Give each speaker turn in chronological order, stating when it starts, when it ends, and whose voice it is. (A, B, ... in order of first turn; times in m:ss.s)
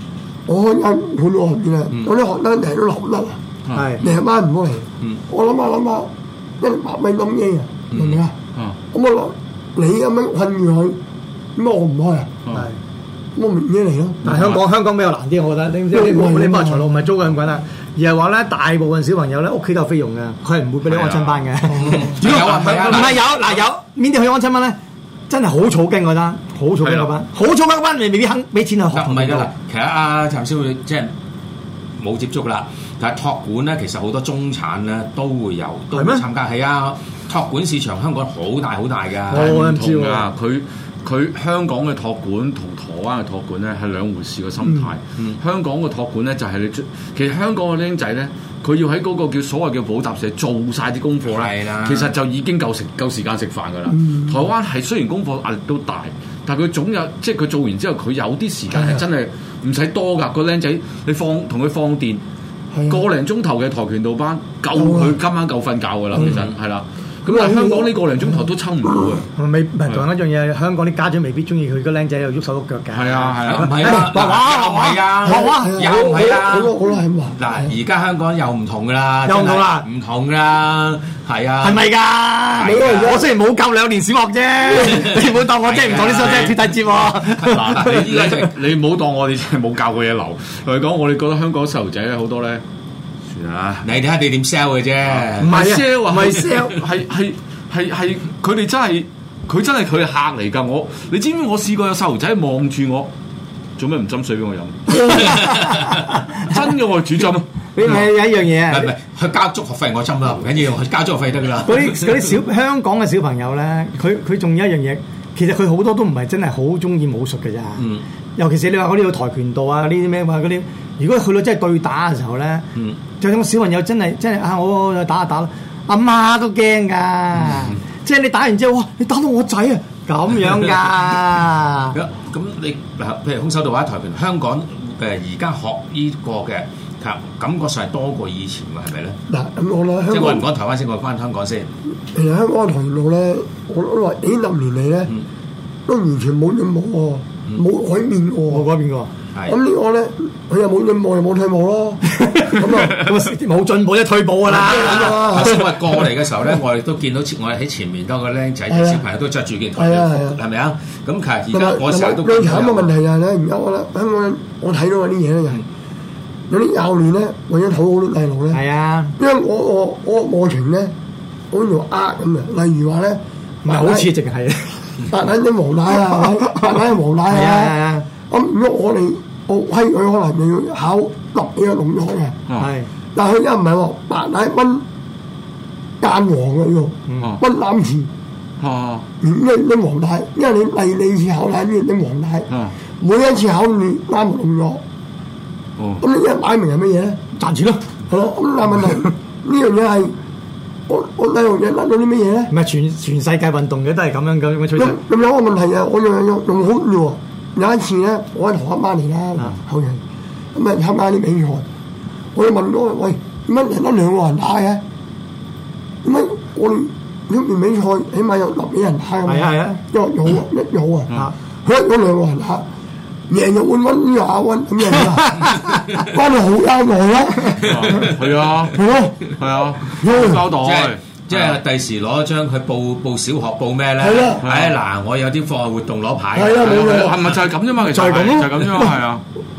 0:00.5-0:03.4 A
0:03.7-0:04.0 B
0:03.7-0:04.0 C
0:04.0-0:06.1 A
0:06.6-0:08.3 A
0:07.9-0:08.2 D
0:08.9-0:11.0 A
0:11.6-0:12.3 A
0:12.5-0:12.8 C
0:13.4-0:14.2 A
0:14.2-0:14.6 B
0:14.2-0:24.8 C
0:15.9-0:16.9 A
0:20.9-0:21.4 B
0:21.7-0:23.2 D
0:22.2-0:23.2 B
0:25.3-0:29.5 C
0:26.8-0:27.1 B
0:28.9-0:31.1 D
0:32.0-0:39.6 D
0:35.9-0:36.2 C
0:39.3-0:40.3 C
0:39.3-1:02.2 B
0:51.3-0:52.1 D
0:53.9-0:54.4 A
1:02.7-1:03.0 A
1:02.9-1:09.3 B
1:04.7-1:05.2 A
1:06.2-1:06.5 D
1:07.3-1:07.9 A
1:09.4-1:15.8 C
1:12.9-1:13.9 B
1:13.4-1:16.8 D
1:15.3-1:17.5 A
1:17.4-1:21.9 D
1:19.2-1:19.9 C
1:21.6-1:28.0 C
1:22.6-1:23.3 D
1:22.7-1:23.2 A
1:24.7-1:28.6 D
1:26.0-1:26.5 B
1:27.4-1:32.6 B
1:33.3-1:33.9 B
1:33.8-1:35.6 D
1:35.1-1:43.1 B
1:35.4-1:36.8 C
1:43.8-1:48.0 B
1:45.0-1:46.5 C
1:45.4-1:45.8 D
1:47.8-1:48.9 C
1:48.7-1:52.3 D
1:51.7-1:57.8 C
1:57.8-1:58.0 D
1:58.4-2:02.6 C
2:03.2-2:12.0 C
2:11.9-2:19.2 D
2:19.3-2:20.4 A
2:20.1-2:21.7 D
2:22.1-2:25.1 A
2:25.9-2:28.7 A
2:28.5-2:29.1 C
2:29.3-2:29.6 D
2:29.5-2:33.1 A
2:32.1-2:35.7 C
2:34.5-2:43.0 D
2:34.6-2:35.6 A
2:38.7-2:39.0 A
2:39.8-2:40.4 A
2:41.5-2:45.6 A
2:46.5-2:48.6 A
2:48.5-2:49.2 C
2:49.2-2:50.9 A
2:51.5-2:54.1 A
2:53.6-2:55.0 C
2:55.1-2:57.8 A
2:56.1-2:56.5 C
2:57.3-2:58.1 C
2:58.3-3:02.4 A
3:02.6-3:02.9 C
3:03.2-3:04.8 A
3:06.0-3:08.1 A
3:07.1-3:07.4 C
3:08.6-3:09.0 B
3:09.2-3:12.5 A
3:13.0-3:14.8 A
3:15.8-3:16.0 B
3:16.0-3:17.2 A
3:17.4-3:17.8 C
3:18.1-3:20.1 A
3:20.9-3:22.5 A
3:22.5-3:25.0 C
3:24.8-3:30.0 A
3:30.6-3:31.6 A
3:32.4-3:34.8 A
3:36.0-3:41.1 A
3:39.3-3:39.8 C
3:41.6-3:42.6 A
3:43.3-3:48.1 A
3:44.9-3:45.8 C
3:47.6-3:51.6 B
3:47.7-3:48.1 D
3:48.7-3:49.3 A
3:50.0-3:50.5 A
3:50.4-3:57.3 D
3:54.0-3:54.4 A
3:54.4-3:54.7 B
3:56.3-3:57.3 A
3:56.6-3:59.2 B
3:57.8-3:59.0 C